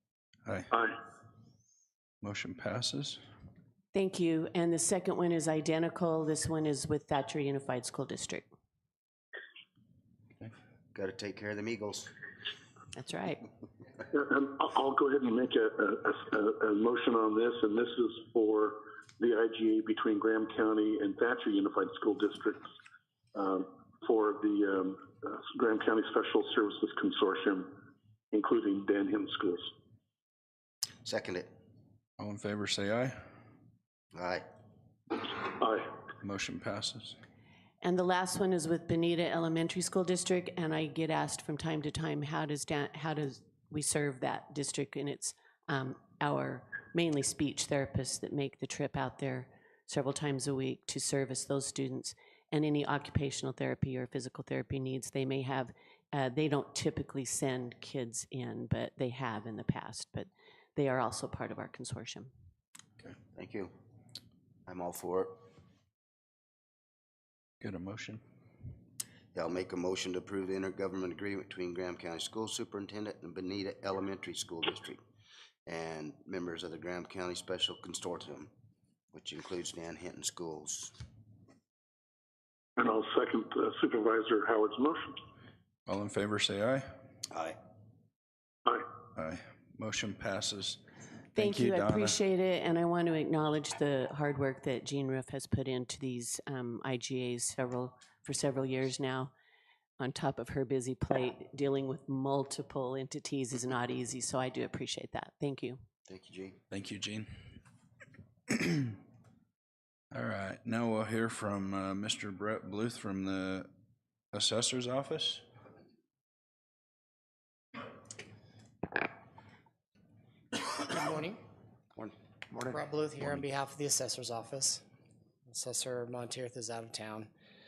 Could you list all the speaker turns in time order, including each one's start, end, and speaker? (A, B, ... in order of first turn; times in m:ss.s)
0:02.2-0:03.2 A
0:03.9-0:08.5 B
0:10.9-0:12.1 C
0:12.9-0:13.4 B
0:14.1-0:22.7 D
0:23.4-0:27.7 D
0:28.3-0:29.7 D
0:31.0-0:31.5 C
0:32.2-0:33.2 A
0:34.2-0:34.4 C
0:35.5-0:36.0 D
0:36.2-0:37.2 A
0:37.8-1:02.3 B
1:03.4-1:03.7 C
1:04.7-1:05.4 C
1:07.6-1:08.2 A
1:09.3-1:15.0 C
1:15.7-1:18.5 C
1:19.1-1:20.9 C
1:22.8-1:25.2 D
1:25.9-1:26.8 A
1:27.3-1:27.6 C
1:29.2-1:30.8 A
1:31.4-1:32.2 A
1:31.4-1:39.3 B
1:40.0-1:45.8 B
1:46.1-1:46.6 C
1:46.7-1:47.3 A
1:48.5-1:49.0 A
1:50.1-1:53.7 A
1:54.3-1:55.4 A
2:00.8-2:01.4 E
2:02.0-2:03.5 C
2:02.7-2:04.8 E
2:05.5-2:07.3 E